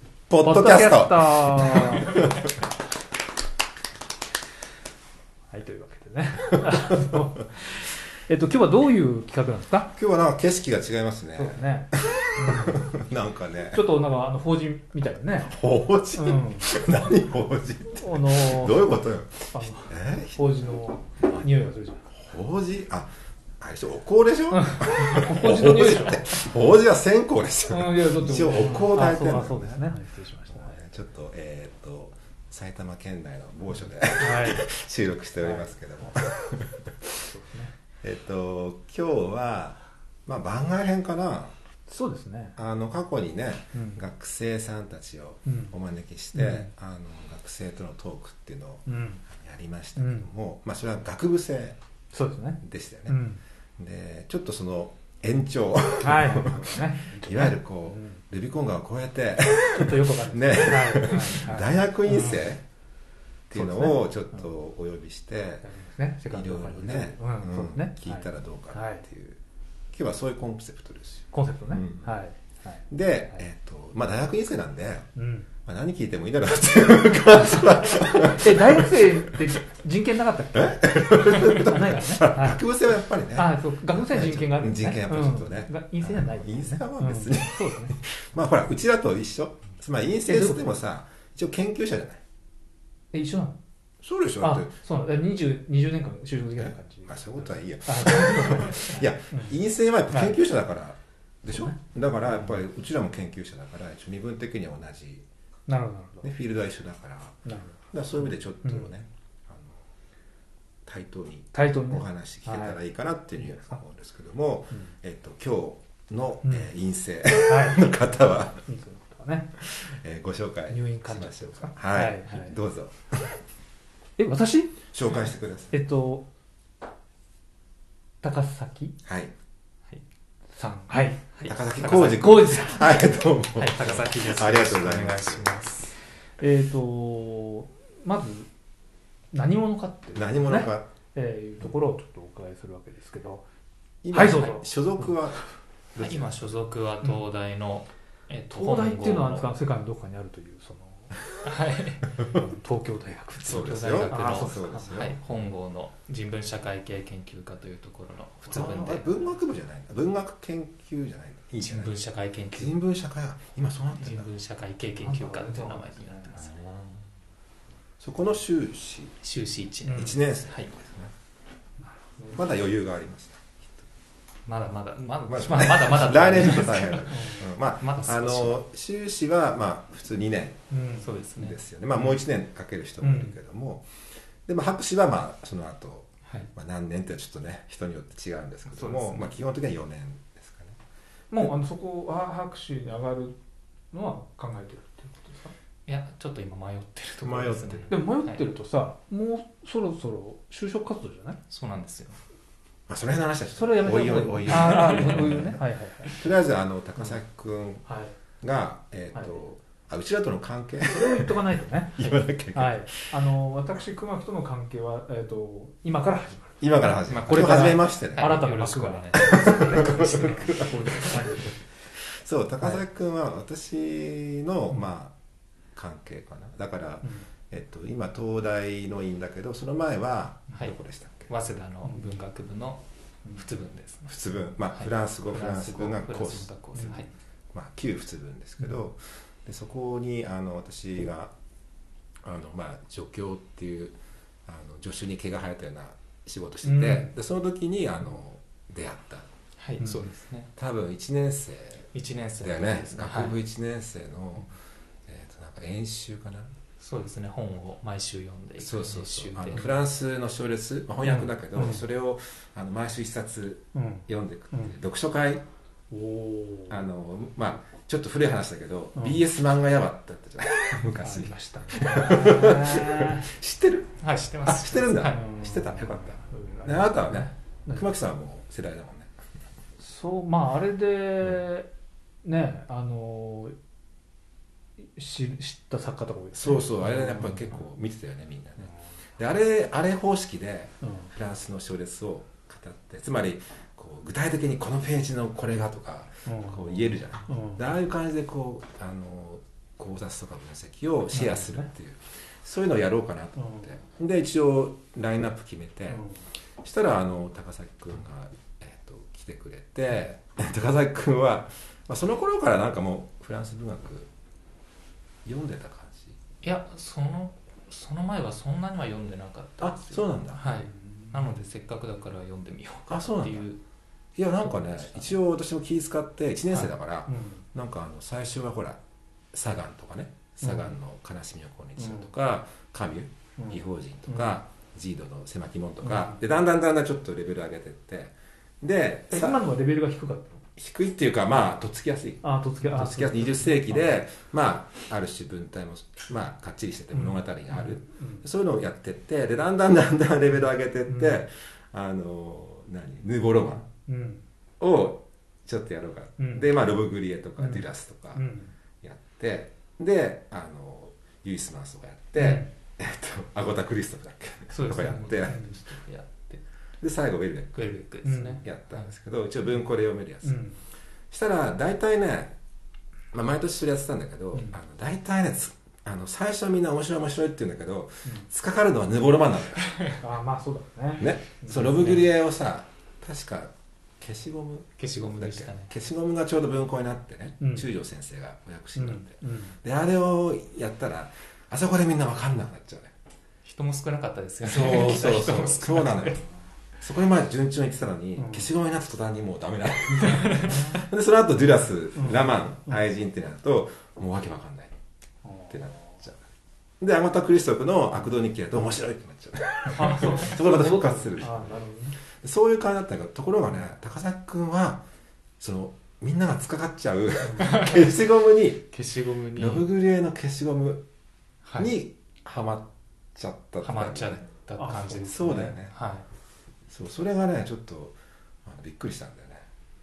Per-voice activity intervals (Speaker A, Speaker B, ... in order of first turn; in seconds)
Speaker A: 0.3-2.5, 9.9-13.8, 15.5-20.4, 22.1-29.8, 30.5-37.1, 38.0-41.5, 42.6-51.8, 52.6-53.2, 53.8-62.6, 63.5-65.7, 66.3-69.4, 69.9-72.1, 72.9-75.1, 75.7-79.4, 80.5-92.2, 94.0-94.7, 96.6-105.2, 106.2-107.4, 107.9-109.9, 110.9-118.7, 119.6-123.4, 124.9-125.7, 129.0-129.3, 131.4-135.6, 140.2-140.9, 144.0-145.4, 145.9-146.6, 153.5-155.2, 158.5-162.0, 162.5-164.3, 166.3-167.0, 168.0-169.2, 170.0-171.1, 172.3-173.7, 175.3-180.6, 181.4-183.9, 184.5-190.8, 197.2-197.9, 202.9-207.8, 208.4-213.0, 216.6-218.4, 219.2-221.5, 222.1-225.1, 225.8-231.3, 234.1-236.5, 237.5-241.3, 242.2-249.3, 250.6-251.9, 252.4-254.6, 255.1-256.5, 258.6-265.4, 266.7-279.1, 286.3-306.1, 306.6-314.1, 315.2-316.2, 319.6-320.4, 322.9-323.5, 324.2-328.8, 329.3-339.4, 340.6-353.7, 354.6-358.2, 358.8-365.5, 366.8-367.7, 368.4-370.4, 371.1-372.4, 373.1-379.7, 381.0-392.9, 394.4-396.2, 396.8-404.8, 405.5-406.2, 406.8-411.5, 412.1-414.8, 415.4-418.7, 419.4-420.9, 421.6-424.2, 425.0-425.7, 426.7-429.5
Speaker B: 0.4-2.3, 5.5-9.9, 11.3-12.9, 13.7-15.6, 16.1-16.7, 18.0-18.9, 19.5-22.1, 24.5-26.4, 27.7-30.8, 34.2-34.7, 35.4-36.4, 37.2-37.7, 41.9-42.6, 43.7-44.0, 45.5-45.7, 46.3-46.7, 48.9-49.2, 50.0-50.3, 52.1-53.4, 56.0-58.2, 59.7-62.5, 63.5-64.0, 65.6-69.1, 71.3-73.5, 75.2-75.5, 78.0-82.6, 83.3-88.0, 90.3-90.6, 93.1-93.6, 94.4-99.6, 100.1-100.4, 105.7-106.3, 107.5-107.8, 108.6-108.9, 111.5-112.8, 113.4-113.8, 116.4-116.7, 117.4-118.0, 118.6-119.5, 120.7-122.6, 124.2-124.8, 125.7-126.3, 128.2-129.0, 130.6-133.0, 136.4-138.5, 139.3-143.4, 144.1-145.1, 148.5-151.1, 152.2-154.9, 165.0-166.4, 169.8-170.2, 171.8-172.5, 177.1-177.5, 180.7-181.1, 183.0-183.4, 191.3-193.4, 193.9-195.5, 197.9-201.4, 203.6-206.2, 207.9-208.1, 210.9-221.6, 231.8-232.2, 236.8-237.1, 246.6-247.1, 261.1-261.8, 263.7-264.7, 265.9-266.8, 269.0-269.2, 271.0-273.3, 275.0-277.9, 279.8-281.7, 282.2-283.6, 284.8-287.6, 290.8-291.1, 296.2-297.6, 301.1-301.7, 303.4-303.7, 305.9-306.2, 320.6-321.2, 327.1-327.4, 331.8-332.1, 333.4-334.4, 335.8-336.2, 339.1-340.4, 342.2-343.9, 346.9-348.2, 350.9-351.2, 353.7-354.2, 356.2-356.5, 357.4-358.5, 362.2-362.5, 364.5-365.6, 368.0-368.4, 370.2-370.6, 380.0-382.0, 387.4-387.7, 388.8-389.6, 398.2-398.5, 401.9-402.8, 405.2-406.0, 409.7-412.0, 424.6-425.1
Speaker C: 131.4-132.0, 133.6-135.9, 146.0-149.5, 151.4-152.1, 153.4-159.1, 161.6-162.8, 164.0-166.6, 169.2-170.7, 174.5-178.6, 181.0-181.6, 188.7-189.2, 195.9-198.4, 201.5-202.2, 204.5-205.2, 217.0-221.2, 231.3-232.8, 233.3-234.1, 234.7-237.1, 249.6-250.5, 251.9-253.4, 256.8-259.6, 274.0-275.3, 316.4-323.6, 364.7-366.4, 367.6-368.9, 379.6-379.9, 384.8-385.7, 393.4-396.2, 400.0-400.8, 417.4-418.0, 418.7-419.7, 421.4-421.7, 423.6-426.1